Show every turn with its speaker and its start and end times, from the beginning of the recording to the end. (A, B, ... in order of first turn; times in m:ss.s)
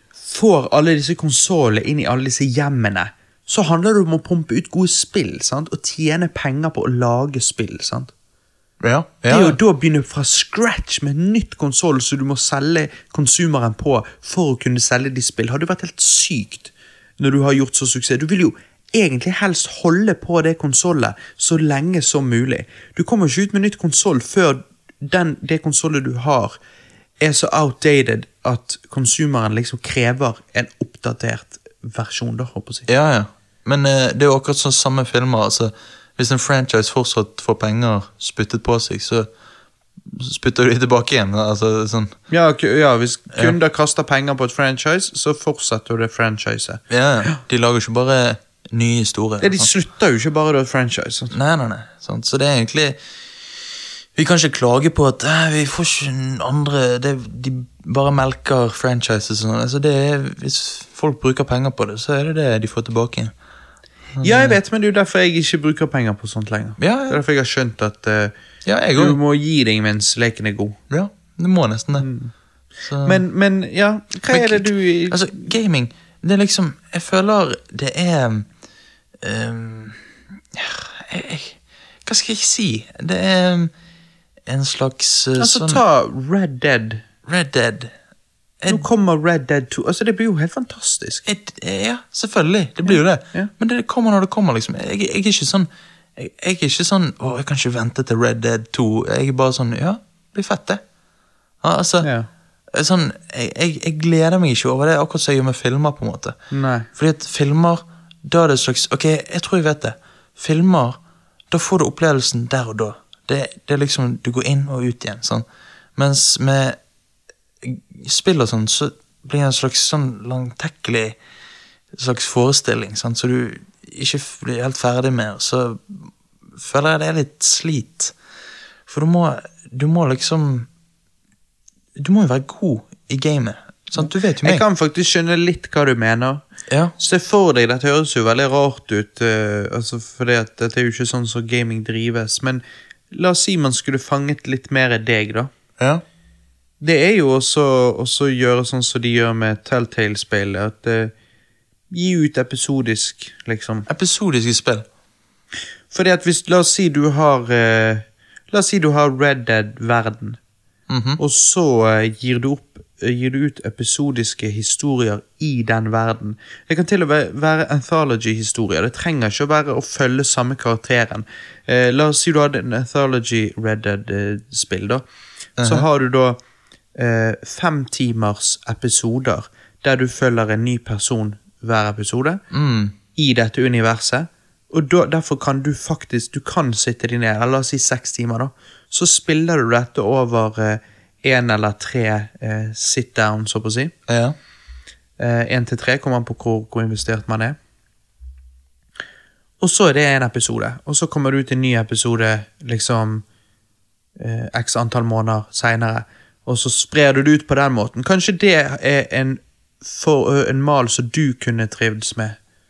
0:00.2-0:08.1 A
0:08.8-0:09.6 B
0:09.3-0:26.6 A
0:27.2-0:32.9 A
0:32.9-0:39.3 B
0:40.1-0:42.2 B
0:42.3-0:47.3 A
0:46.9-0:49.7 B
0:49.4-0:51.4 A
0:51.3-0:53.0 B
0:54.2-1:03.3 B
1:04.2-1:04.6 B
1:04.2-1:08.3 A
1:06.8-1:07.2 B
1:08.6-1:09.2 B
1:09.0-1:10.8 A
1:10.9-1:12.1 B
1:12.0-1:12.3 A
1:12.9-1:13.2 B
1:13.0-1:15.3 A
1:14.3-1:18.5 B
1:19.2-1:23.7 B
1:24.5-1:25.8 B
1:25.4-1:27.0 A
1:27.3-1:27.9 B
1:28.7-1:31.2 A
1:31.3-1:40.8 B
1:32.9-1:33.5 A
1:41.6-1:42.1 B
1:42.0-1:42.3 A
1:42.7-1:46.4 B
1:46.5-1:46.9 A
1:47.0-1:51.0 B
1:51.5-1:55.4 B
1:56.0-1:56.8 B
1:57.6-2:01.2 B
2:01.9-2:08.2 B
2:08.9-2:10.7 B
2:12.0-2:14.6 B
2:14.0-2:16.4 A
2:16.7-2:17.0 B
2:17.0-2:25.5 A
2:25.8-2:26.0 B
2:26.8-2:31.1 A
2:31.9-2:33.9 A
2:33.9-2:34.9 B
2:35.9-2:40.4 A
2:40.9-2:41.2 B
2:41.2-2:55.0 A
2:55.6-2:55.9 B
2:55.6-2:56.4 A
2:57.0-3:02.4 A
3:02.5-3:03.0 B
3:03.2-3:13.9 A
3:14.1-3:14.4 B
3:15.2-3:17.6 A
3:19.6-3:23.2 A
3:24.2-3:32.4 A